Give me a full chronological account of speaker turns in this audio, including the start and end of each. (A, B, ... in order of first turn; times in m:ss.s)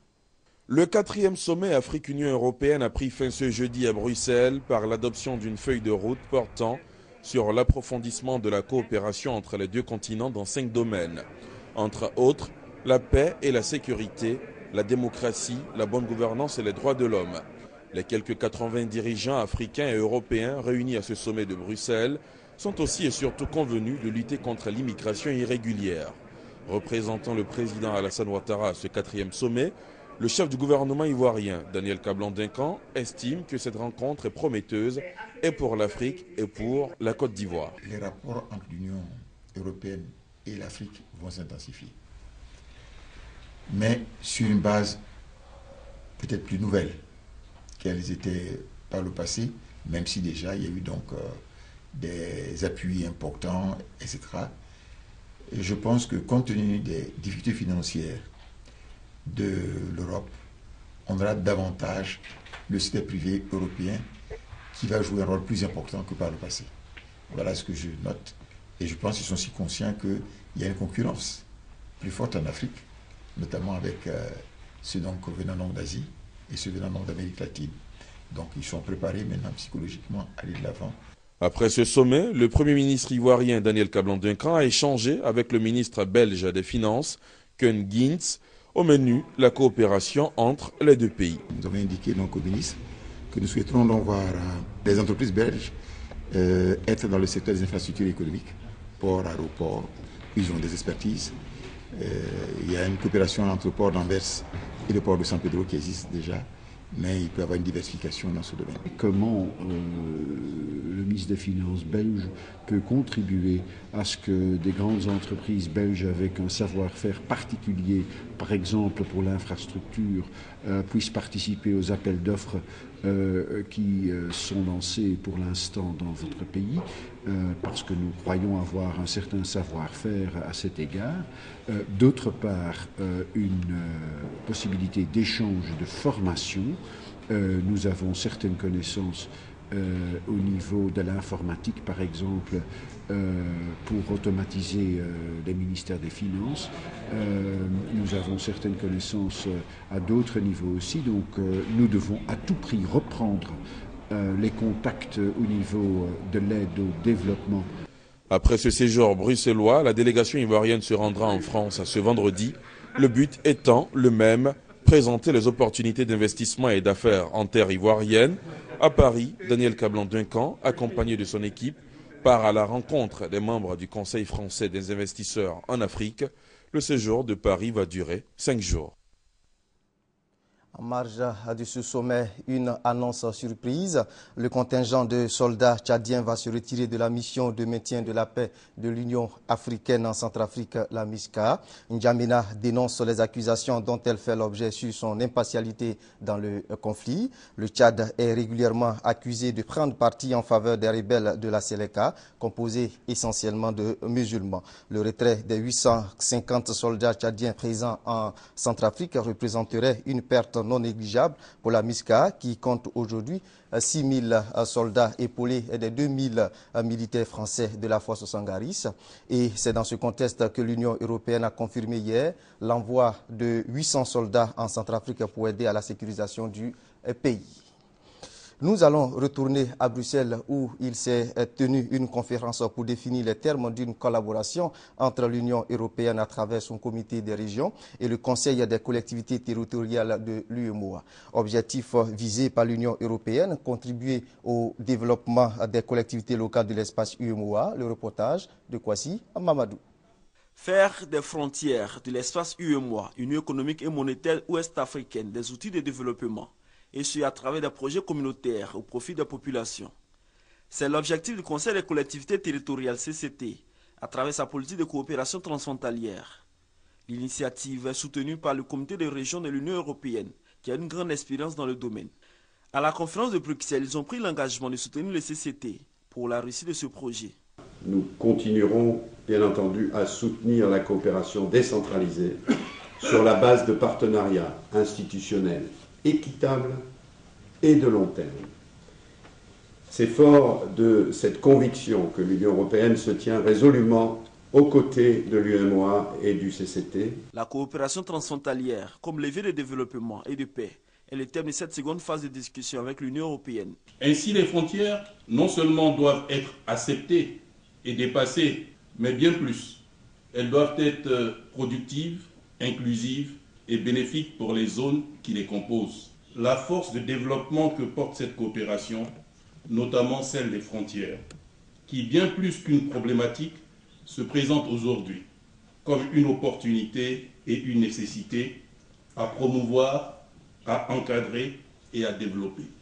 0:00.7-0:37.7 A
0:37.8-0:42.0 B
0:43.7-0:45.0 B
0:46.2-0:47.0 B
0:47.8-0:51.4 B
0:51.9-0:54.5 B
0:55.5-0:58.3 B
0:59.3-1:00.3 B
1:01.1-1:04.0 B
1:04.7-1:06.7 B
1:07.3-1:11.4 B
1:12.0-1:12.8 B
1:13.4-1:17.8 B
1:18.3-1:21.0 B
1:21.4-1:31.4 A
1:31.5-1:32.8 B
1:33.3-1:35.8 B
1:36.3-1:41.4 B
1:41.9-1:48.8 B
1:48.9-2:37.7 C
2:38.3-2:58.9 A
3:00.8-3:47.6 D
3:48.6-4:09.8 D
4:10.6-4:19.9 E
4:20.7-4:26.4 E
4:27.1-4:32.1 E
4:32.7-4:37.4 E
4:38.0-4:42.2 F
4:43.0-4:45.6 F
4:46.2-4:46.8 C
4:47.6-4:48.1 F
4:49.9-4:54.0 F
4:50.1-4:50.6 C
4:51.7-4:52.6 C
4:54.5-4:57.1 F
4:57.3-5:03.8 E
5:04.0-5:09.8 G
5:10.3-5:19.1 G
5:19.7-5:21.2 G
5:21.9-5:25.3 G
5:25.8-5:28.6 G
5:29.2-5:32.7 G